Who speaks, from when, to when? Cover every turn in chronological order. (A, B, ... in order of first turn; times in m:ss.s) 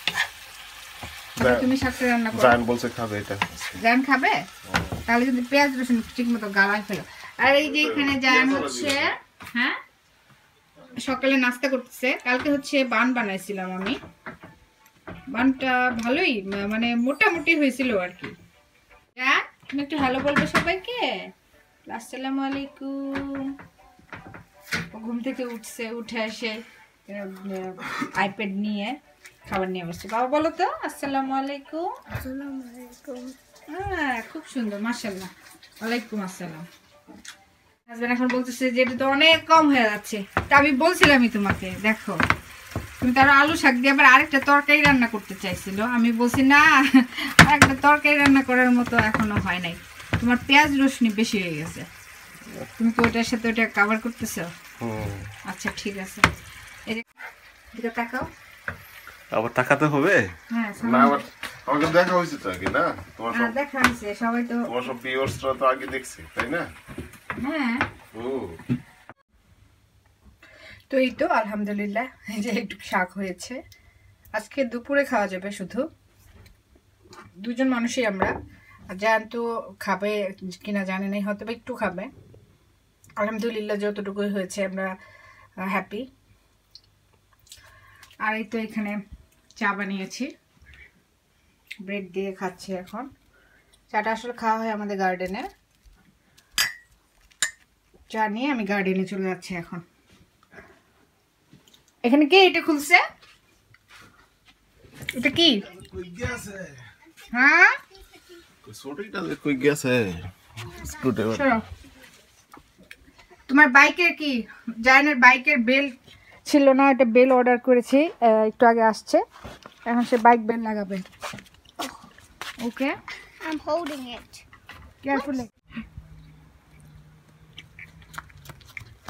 0:01.4-0:02.6 A
0:01.4-0:01.7 B
0:02.3-0:03.8 B
0:03.8-0:04.4 A
0:04.7-0:05.0 B
0:05.1-0:09.8 A
0:07.6-0:09.1 B
0:11.0-0:14.0 A
0:15.3-0:18.4 A
0:19.2-0:21.1 A
0:21.9-0:23.5 A
0:24.9-0:31.9 A
0:32.1-0:33.4 C
0:33.7-0:36.7 A
0:37.9-0:42.2 A
0:43.0-0:51.9 A
0:52.8-0:54.5 A
0:54.8-0:55.3 B
0:55.5-0:56.2 A
0:57.7-0:58.3 A
0:59.3-1:03.6 B
1:00.5-1:01.3 A
1:03.3-1:04.7 A
1:04.7-1:06.7 B
1:07.4-1:07.8 A
1:08.1-1:08.6 B
1:10.9-1:13.6 A
1:14.4-1:15.8 A
1:17.4-1:18.3 A
1:18.9-1:22.1 A
1:23.2-1:24.9 A
1:25.6-1:26.1 A
1:28.2-1:29.0 A
1:29.6-1:30.3 A
1:31.8-1:33.1 A
1:33.9-1:35.5 A
1:38.1-1:39.8 A
1:42.0-1:43.0 A
1:45.2-1:45.7 A
1:45.8-1:46.8 B
1:47.3-1:47.8 A
1:48.6-1:51.6 B
1:51.3-1:51.6 A
1:53.5-1:59.2 A
1:59.8-2:01.1 A
2:02.6-2:03.0 A
2:03.4-2:04.4 C
2:05.0-2:05.5 A
2:05.1-2:05.4 C